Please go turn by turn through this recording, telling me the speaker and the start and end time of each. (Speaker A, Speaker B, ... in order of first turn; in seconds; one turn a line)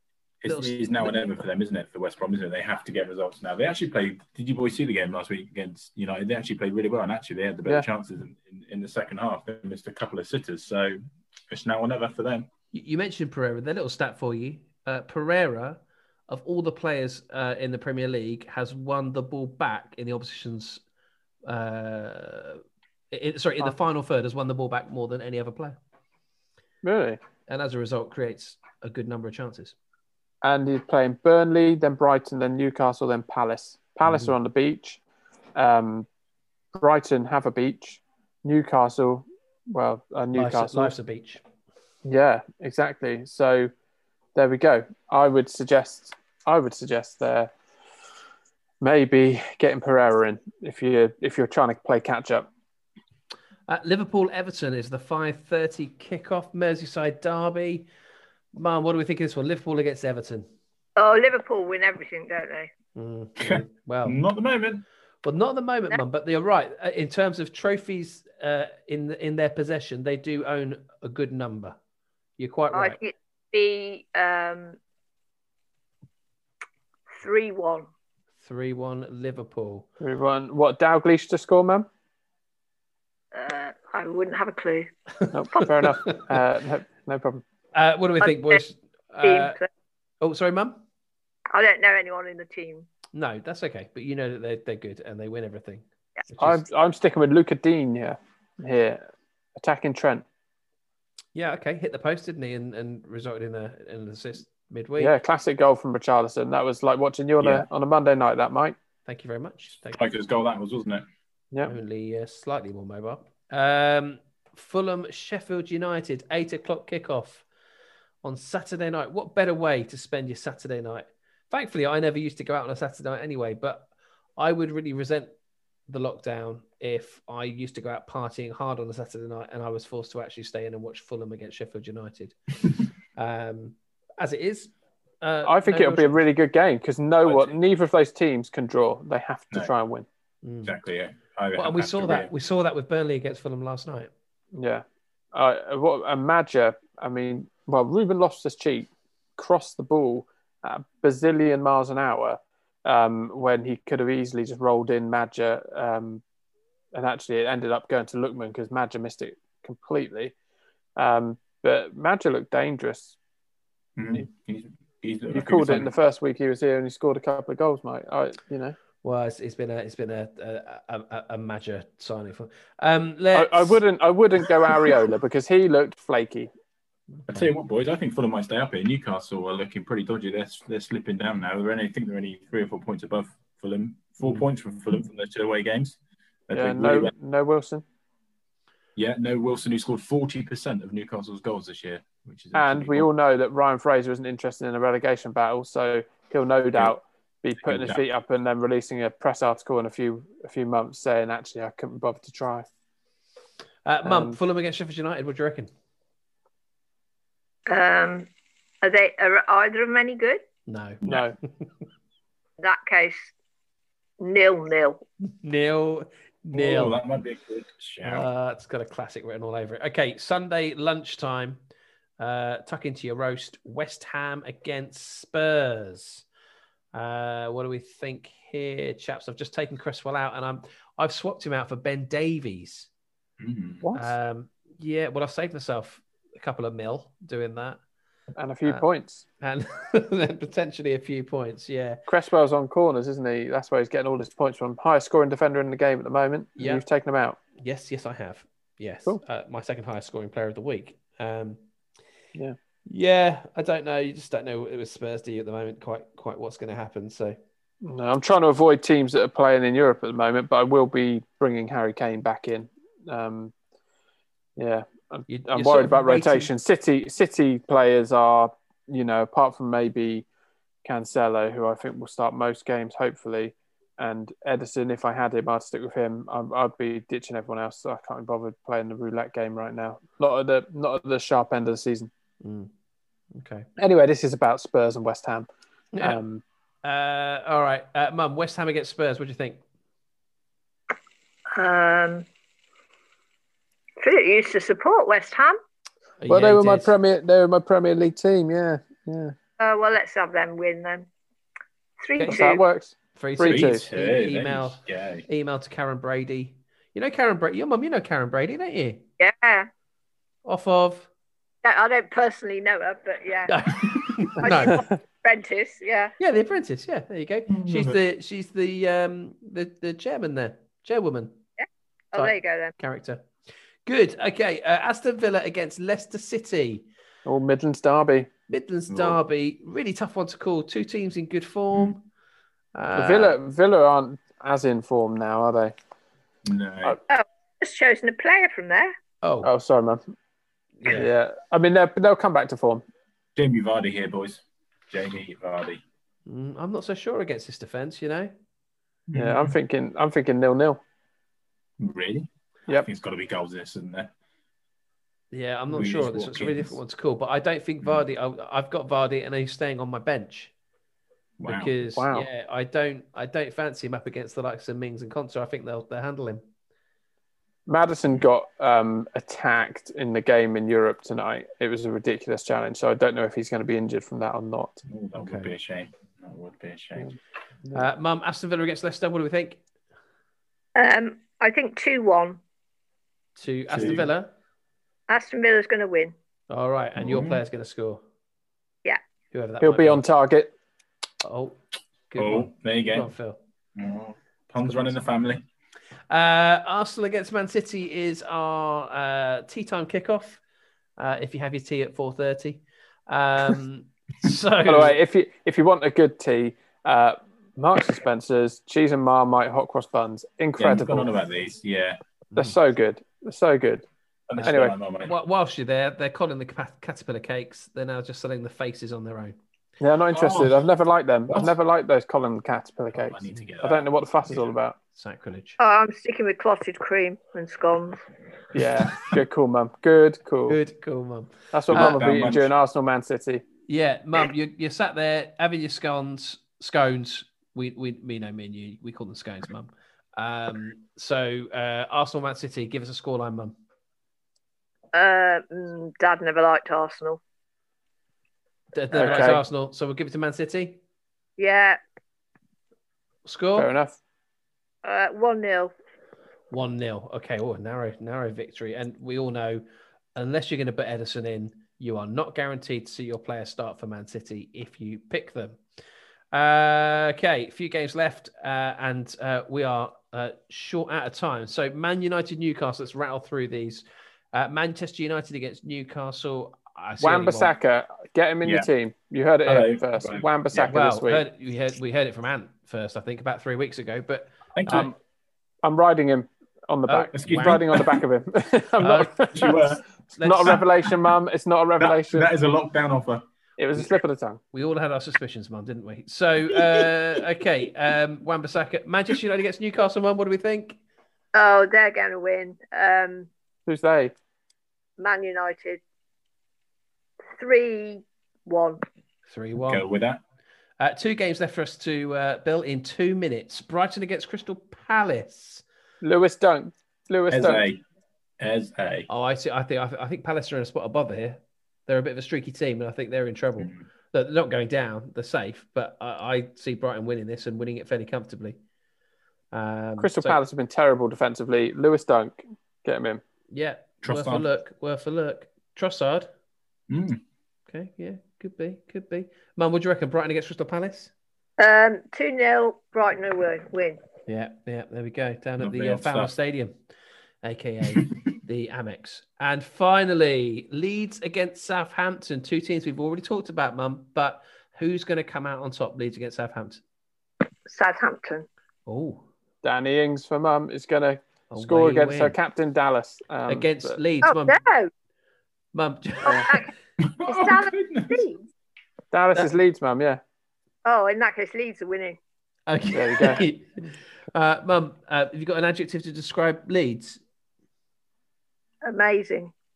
Speaker A: 0.4-12.5
Speaker B: 0.5-1.1
Speaker B: 12.7-20.8
Speaker B: 21.5-25.8
Speaker C: 26.8-27.2
Speaker B: 27.5-29.8
Speaker C: 30.4-35.0
Speaker C: 35.6-36.1
Speaker C: 36.7-41.0
Speaker B: 40.3-41.4
Speaker C: 42.0-43.7
Speaker C: 44.4-47.5
Speaker C: 48.8-52.5
Speaker B: 53.7-57.9
Speaker B: 58.5-60.5
Speaker D: 61.0-62.7
Speaker B: 63.0-64.2
Speaker A: 63.4-64.8
Speaker B: 65.2-71.8
Speaker B: 72.4-73.0
Speaker D: 72.7-74.8
Speaker D: 77.2-77.9
Speaker B: 78.4-79.9
Speaker C: 80.0-81.9
Speaker D: 83.3-84.9
Speaker C: 85.3-87.4
Speaker B: 87.7-89.6
Speaker D: 88.2-88.6
Speaker D: 89.2-89.7
Speaker B: 90.2-90.8
Speaker D: 91.5-92.9
Speaker B: 93.1-96.6
Speaker C: 96.4-99.0
Speaker C: 99.6-100.2
Speaker B: 101.3-105.2
Speaker C: 105.0-108.8
Speaker A: 107.4-107.7
Speaker B: 109.1-110.0
Speaker A: 110.0-111.0
Speaker B: 111.7-117.5
Speaker B: 118.2-125.3
Speaker B: 125.9-132.4
Speaker B: 133.2-136.2
Speaker C: 135.4-140.1
Speaker A: 137.2-137.5
Speaker B: 140.4-140.7
Speaker A: 140.6-142.3
Speaker B: 141.6-144.1
Speaker C: 144.6-156.2
Speaker C: 156.9-160.3
Speaker C: 161.0-163.2
Speaker A: 164.0-165.9
Speaker C: 165.3-168.8
Speaker B: 169.0-173.8
Speaker C: 173.3-176.5
Speaker A: 177.3-186.0
Speaker A: 186.5-187.1
Speaker C: 186.5-187.8
Speaker A: 189.0-193.1
Speaker C: 192.5-202.7
Speaker A: 197.6-198.0
Speaker B: 203.8-205.7
Speaker C: 204.0-204.4
Speaker D: 207.7-208.3
Speaker D: 208.8-210.4
Speaker B: 210.7-211.0
Speaker C: 211.1-211.4
Speaker D: 212.6-213.3
Speaker D: 214.2-215.0
Speaker B: 215.3-217.0
Speaker A: 216.5-218.3
Speaker B: 218.0-221.6
Speaker B: 222.2-226.2
Speaker B: 226.9-232.9
Speaker A: 233.4-233.8
Speaker C: 233.8-234.1
Speaker B: 233.9-237.8
Speaker C: 238.4-239.2
Speaker B: 239.4-242.0
Speaker C: 242.1-247.4
Speaker B: 246.6-246.8
Speaker B: 247.6-251.6
Speaker B: 252.9-257.4
Speaker C: 257.8-263.5
Speaker C: 264.6-270.3
Speaker B: 265.3-266.5
Speaker C: 270.9-282.1
Speaker B: 282.4-282.7
Speaker B: 283.3-283.7
Speaker C: 283.8-286.4
Speaker B: 285.9-286.2
Speaker B: 286.8-289.6
Speaker D: 291.5-292.3
Speaker D: 294.0-295.6
Speaker B: 296.2-296.9
Speaker C: 296.3-299.3
Speaker D: 299.6-301.1
Speaker D: 302.0-302.6
Speaker C: 302.3-303.8
Speaker B: 303.2-309.0
Speaker A: 303.4-305.2
Speaker D: 309.2-309.7
Speaker B: 310.4-311.1
Speaker D: 311.6-316.1
Speaker B: 313.5-314.8
Speaker C: 314.6-315.0
Speaker B: 316.2-321.4
Speaker A: 317.5-318.0
Speaker D: 321.6-322.7
Speaker B: 322.1-323.2
Speaker B: 323.9-326.9
Speaker C: 327.2-328.3
Speaker B: 328.5-332.0
Speaker A: 328.9-329.2
Speaker B: 332.8-333.4
Speaker C: 333.0-335.7
Speaker A: 336.4-337.0
Speaker D: 337.1-338.9
Speaker B: 339.2-339.5
Speaker C: 339.4-340.1
Speaker B: 340.8-341.1
Speaker C: 340.9-342.9
Speaker A: 343.4-345.8
Speaker B: 346.3-348.3
Speaker A: 349.1-349.5
Speaker C: 349.1-350.8
Speaker A: 351.8-354.1
Speaker B: 355.3-360.5
Speaker A: 355.7-356.8
Speaker A: 361.4-361.7
Speaker B: 361.4-366.4
Speaker C: 361.9-362.3
Speaker C: 367.7-374.8
Speaker A: 374.9-377.1
Speaker B: 375.2-375.5
Speaker B: 377.7-379.6
Speaker D: 380.8-382.4
Speaker B: 383.4-384.3
Speaker A: 383.7-384.1
Speaker D: 385.1-386.1
Speaker B: 386.5-388.0
Speaker A: 387.0-387.4
Speaker B: 389.3-390.0
Speaker C: 389.6-390.5
Speaker B: 391.2-391.6
Speaker B: 392.1-393.4
Speaker A: 392.2-393.1
Speaker A: 393.8-395.4
Speaker B: 394.6-395.0
Speaker B: 396.1-400.4
Speaker B: 401.0-405.0
Speaker C: 404.6-411.1
Speaker A: 410.6-412.0
Speaker C: 412.4-413.9
Speaker A: 414.3-415.1
Speaker B: 414.4-419.4
Speaker C: 414.4-414.7
Speaker C: 419.8-424.8
Speaker A: 420.1-420.5
Speaker A: 422.9-424.6
Speaker B: 425.0-425.6
Speaker D: 425.6-428.0
Speaker C: 428.5-430.6
Speaker B: 430.5-432.0
Speaker C: 431.5-433.4
Speaker A: 431.7-432.5
Speaker B: 433.7-443.6
Speaker D: 444.9-447.2
Speaker B: 448.7-450.8
Speaker C: 448.9-449.4
Speaker D: 451.4-451.8
Speaker B: 453.2-453.7
Speaker C: 453.6-454.0
Speaker D: 454.8-455.7
Speaker B: 456.5-459.6
Speaker B: 460.1-465.6
Speaker B: 466.3-477.5
Speaker C: 477.0-481.2
Speaker A: 479.5-480.7
Speaker B: 480.7-484.9
Speaker A: 484.5-484.9
Speaker C: 484.7-485.0
Speaker C: 485.6-492.3
Speaker B: 486.9-487.6
Speaker A: 487.1-488.0
Speaker B: 488.8-489.3
Speaker A: 489.3-489.9
Speaker B: 490.2-490.6
Speaker A: 491.8-493.2
Speaker C: 493.6-494.4
Speaker B: 494.5-500.8
Speaker A: 496.5-496.9
Speaker D: 501.3-503.3
Speaker C: 503.7-504.1
Speaker D: 505.0-505.8
Speaker D: 507.4-508.8
Speaker B: 509.3-509.8
Speaker A: 509.6-510.2
Speaker B: 510.8-515.6
Speaker C: 516.0-517.7
Speaker A: 517.3-517.8
Speaker A: 518.4-519.1
Speaker B: 519.1-528.6
Speaker B: 529.5-530.4
Speaker C: 530.0-533.2
Speaker B: 533.5-536.3
Speaker A: 534.0-534.5
Speaker A: 536.9-537.2
Speaker B: 537.7-541.1
Speaker D: 541.6-544.0
Speaker B: 544.3-546.7
Speaker A: 545.6-546.3
Speaker B: 547.4-556.8
Speaker D: 557.7-558.5
Speaker B: 558.9-559.2
Speaker C: 559.6-564.0
Speaker B: 561.5-562.4
Speaker B: 563.5-564.6
Speaker D: 564.2-564.9
Speaker B: 565.7-566.7
Speaker C: 566.2-566.5
Speaker A: 567.0-568.2
Speaker D: 567.3-568.4
Speaker C: 569.1-570.2
Speaker D: 570.9-572.2
Speaker B: 572.7-573.8
Speaker C: 572.9-573.4
Speaker B: 574.3-577.2
Speaker D: 578.8-579.5